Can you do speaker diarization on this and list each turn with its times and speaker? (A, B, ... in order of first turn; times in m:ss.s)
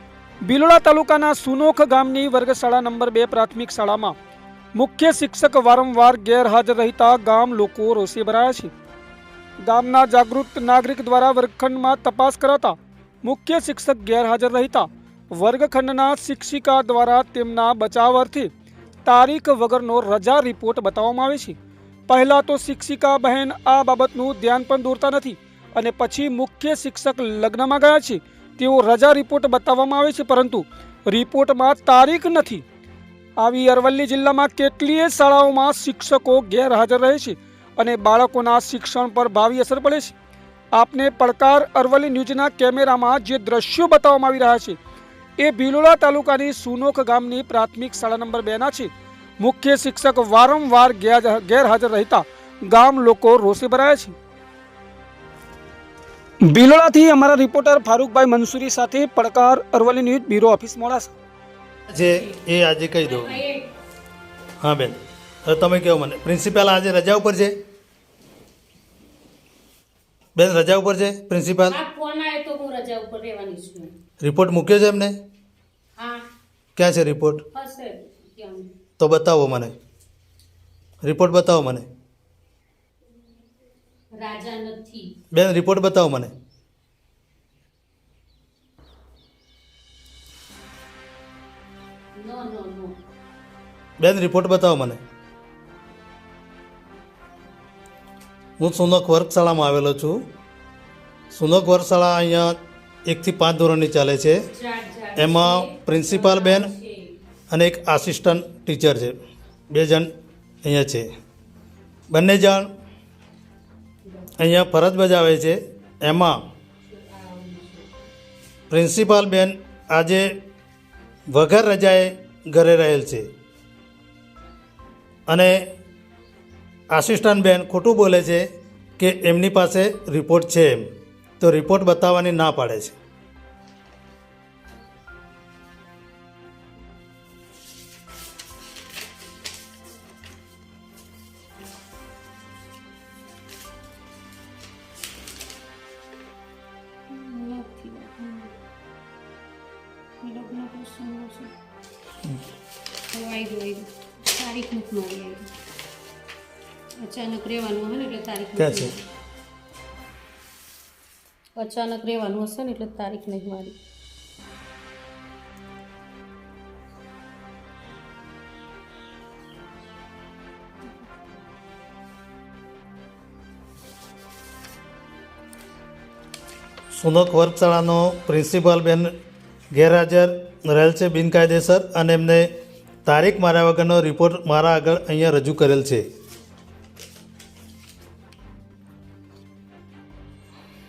0:00.4-0:04.1 A
0:04.7-0:08.7 A
0:09.6-0:18.5 A
0:19.0-0:21.6 A
0:22.1-0:32.6 A
0:33.4-0:40.1 A
0:40.7-0:44.8 A
0:45.4-0:54.1 A
0:56.4-1:01.1 A
1:01.9-1:03.4 B
1:03.0-1:03.7 C
1:04.6-1:07.5 B
1:10.4-1:11.8 B
1:11.7-1:13.9 C
1:14.2-1:15.1 B
1:16.0-1:16.2 C
1:16.8-1:17.4 B
1:17.5-1:18.7 C
1:19.0-1:19.7 B
1:21.0-1:21.8 B
1:24.1-1:25.1 C
1:25.3-1:26.3 B
1:32.1-1:33.0 C
1:34.0-1:35.0 B
1:38.6-1:40.2 B
1:41.3-1:42.5 B
1:43.0-1:44.4 B
1:44.5-1:47.2 C
1:45.2-1:46.7 B
1:47.5-1:49.2 B
1:49.7-1:50.1 B
1:50.6-1:51.1 B
1:52.1-1:52.7 B
1:54.0-1:54.3 C
1:54.4-1:56.4 B
1:56.8-1:57.9 C
1:58.7-2:00.3 B
2:01.3-2:03.2 B
2:05.3-2:05.6 B
2:06.9-2:08.4 B
2:09.0-2:10.9 B
2:11.4-2:12.9 B
2:27.1-2:28.5 C
2:30.2-2:31.5 C
2:33.1-2:35.5 C
2:37.0-2:39.0 C
2:38.6-2:38.9 B
2:41.6-2:43.7 C
2:56.9-2:59.1 B
2:59.7-3:02.5 B
3:03.0-3:06.0 B